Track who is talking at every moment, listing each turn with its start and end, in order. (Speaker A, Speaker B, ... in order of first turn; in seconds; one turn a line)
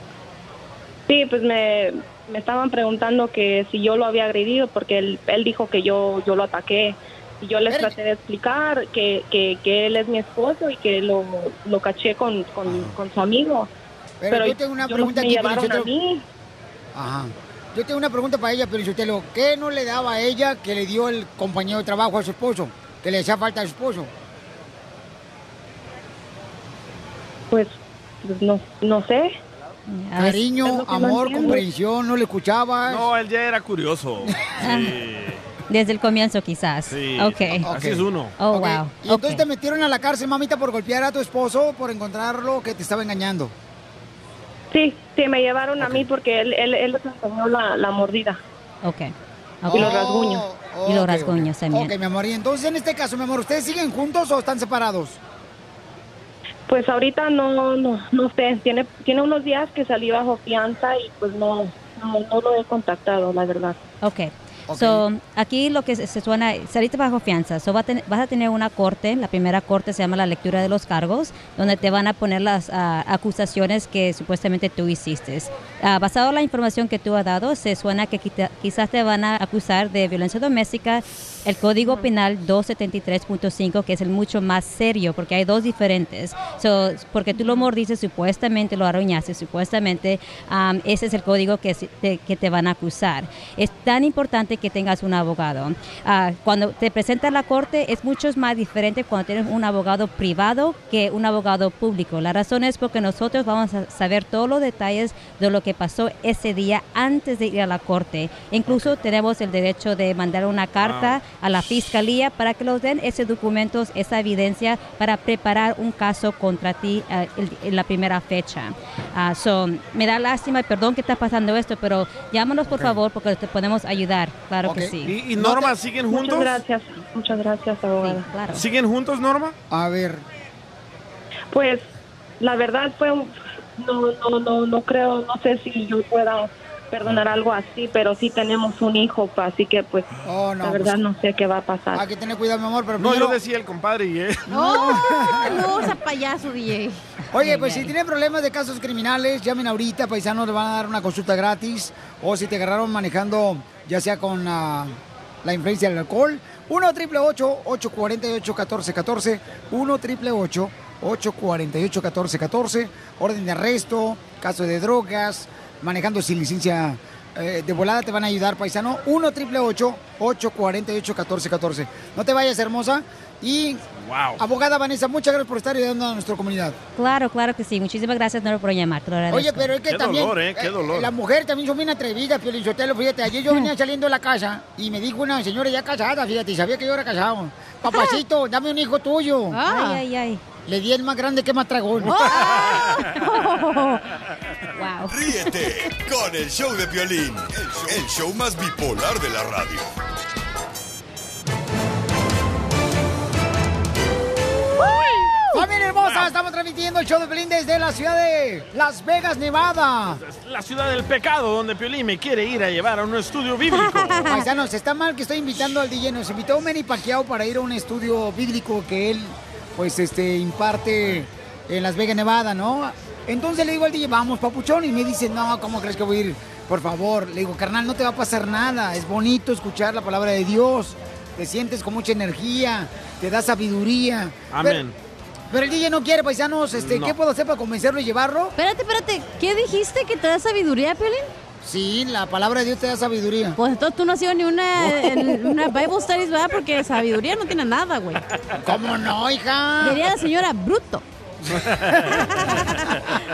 Speaker A: 1.1-13.7
Speaker B: 7.7-8.0
Speaker B: 12.7-13.0
Speaker B: 14.2-15.9
Speaker A: 14.3-16.2
Speaker B: 16.9-24.1
Speaker A: 27.5-29.3
Speaker C: 29.9-30.5
Speaker B: 30.1-33.1
Speaker A: 30.6-31.6
Speaker D: 32.9-35.4
Speaker C: 34.6-34.9
Speaker C: 35.7-37.7
Speaker D: 36.9-38.4
Speaker B: 37.6-43.5
Speaker C: 38.4-39.4
Speaker A: 44.7-48.4
Speaker D: 45.8-46.0
Speaker C: 48.8-50.0
Speaker B: 49.6-55.2
Speaker A: 49.7-50.4
Speaker C: 50.9-51.9
Speaker A: 56.7-63.8
Speaker C: 64.0-125.1
Speaker B: 64.7-65.0
Speaker D: 110.8-111.9
Speaker B: 122.7-123.0
Speaker B: 124.6-125.7
Speaker D: 125.0-126.6
Speaker A: 126.1-128.3
Speaker C: 128.0-128.6
Speaker D: 128.5-129.5
Speaker B: 129.7-130.2
Speaker A: 131.5-131.9
Speaker A: 132.4-140.1
Speaker B: 140.2-141.0
Speaker A: 140.6-142.0
Speaker B: 141.9-143.4
Speaker D: 143.0-144.5
Speaker E: 144.5-147.0
Speaker B: 144.5-145.7
Speaker B: 147.3-173.8
Speaker C: 147.4-147.9
Speaker D: 174.0-174.4
Speaker B: 174.4-176.8
Speaker C: 176.9-179.7
Speaker B: 179.3-189.6
Speaker D: 179.8-181.1
Speaker E: 189.5-190.0
Speaker C: 189.7-190.4
Speaker B: 190.7-192.2
Speaker E: 192.1-194.0
Speaker C: 194.7-195.2
Speaker F: 195.1-199.9
Speaker B: 205.5-210.2
Speaker D: 206.0-206.3
Speaker D: 210.2-214.3
Speaker E: 213.7-214.2
Speaker B: 214.2-234.8
Speaker D: 234.5-234.9
Speaker B: 235.5-238.5
Speaker D: 236.7-237.2
Speaker E: 238.6-241.3
Speaker B: 241.6-243.6
Speaker E: 243.6-248.2
Speaker B: 244.8-245.5
Speaker B: 248.6-250.1
Speaker E: 249.8-251.0
Speaker B: 251.4-252.5